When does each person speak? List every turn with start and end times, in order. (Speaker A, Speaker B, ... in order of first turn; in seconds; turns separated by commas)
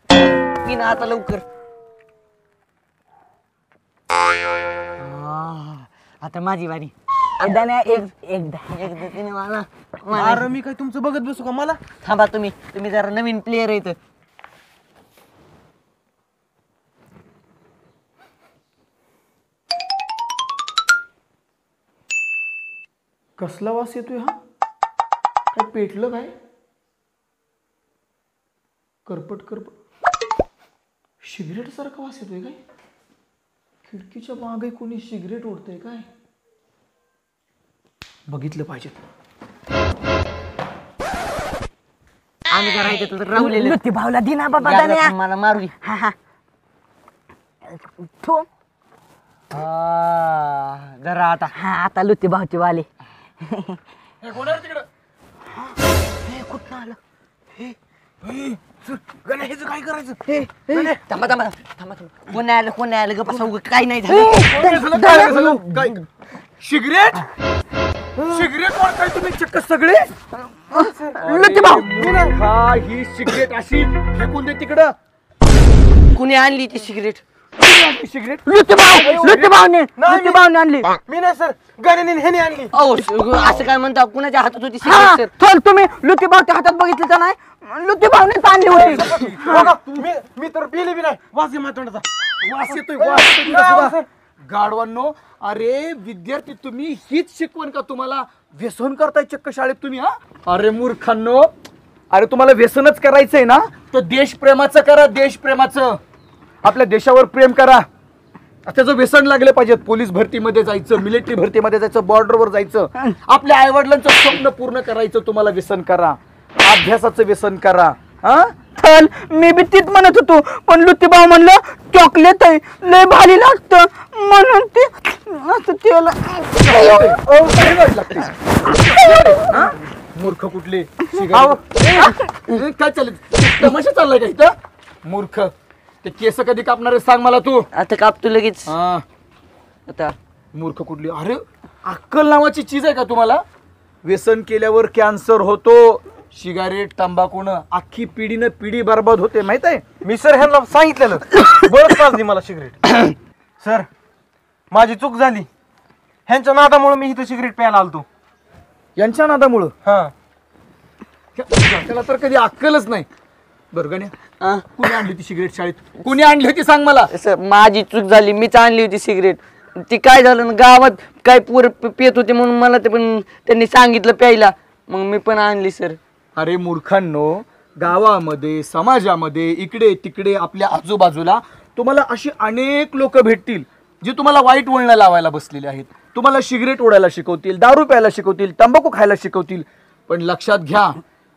Speaker A: 0.1-1.4, Speaker A: 5.0-8.1, Speaker B: 7.4-8.9, Speaker A: 8.7-10.5, Speaker C: 10.1-11.8, Speaker A: 12.0-14.0, Speaker D: 23.4-24.4, Speaker D: 25.5-26.3, Speaker D: 29.1-29.8, Speaker D: 31.2-32.6, Speaker D: 33.9-36.1, Speaker D: 38.3-39.0, Speaker A: 42.5-43.8, Speaker B: 43.4-45.1, Speaker A: 44.6-45.7, Speaker B: 45.8-46.1, Speaker B: 47.7-48.5, Speaker A: 49.5-51.5, Speaker B: 51.5-52.9, Speaker B: 53.5-53.8, Speaker D: 54.2-54.9, Speaker A: 56.3-56.9, Speaker C: 57.6-61.0, Speaker A: 60.7-64.5, Speaker B: 64.1-66.0, Speaker D: 64.5-66.0, Speaker D: 66.6-67.3, Speaker C: 68.2-68.5, Speaker D: 68.3-70.2, Speaker B: 70.7-72.1, Speaker C: 70.7-72.4, Speaker D: 71.2-75.0, Speaker A: 76.1-77.2, Speaker D: 77.6-79.5, Speaker B: 78.5-80.9, Speaker C: 78.9-79.4, Speaker C: 80.0-80.4, Speaker C: 81.1-82.7, Speaker A: 82.7-85.3, Speaker B: 84.8-89.7, Speaker D: 88.7-90.1, Speaker C: 88.7-92.1, Speaker D: 92.4-101.5, Speaker C: 92.7-94.1, Speaker D: 102.1-106.0, Speaker D: 106.6-107.9, Speaker D: 108.7-118.5, Speaker B: 118.8-126.8, Speaker D: 126.6-137.7, Speaker B: 128.8-129.6, Speaker A: 131.8-132.6, Speaker A: 137.7-138.7, Speaker D: 138.7-139.1, Speaker A: 139.9-140.2, Speaker D: 140.5-143.4, Speaker D: 144.0-149.8, Speaker C: 150.0-152.8, Speaker C: 153.6-153.9, Speaker C: 154.7-155.5, Speaker C: 156.3-158.1, Speaker D: 159.0-159.7, Speaker C: 159.8-160.1, Speaker D: 161.4-163.1, Speaker D: 163.7-164.1, Speaker A: 164.4-164.7, Speaker D: 164.8-167.1, Speaker A: 167.1-176.0, Speaker D: 176.4-191.0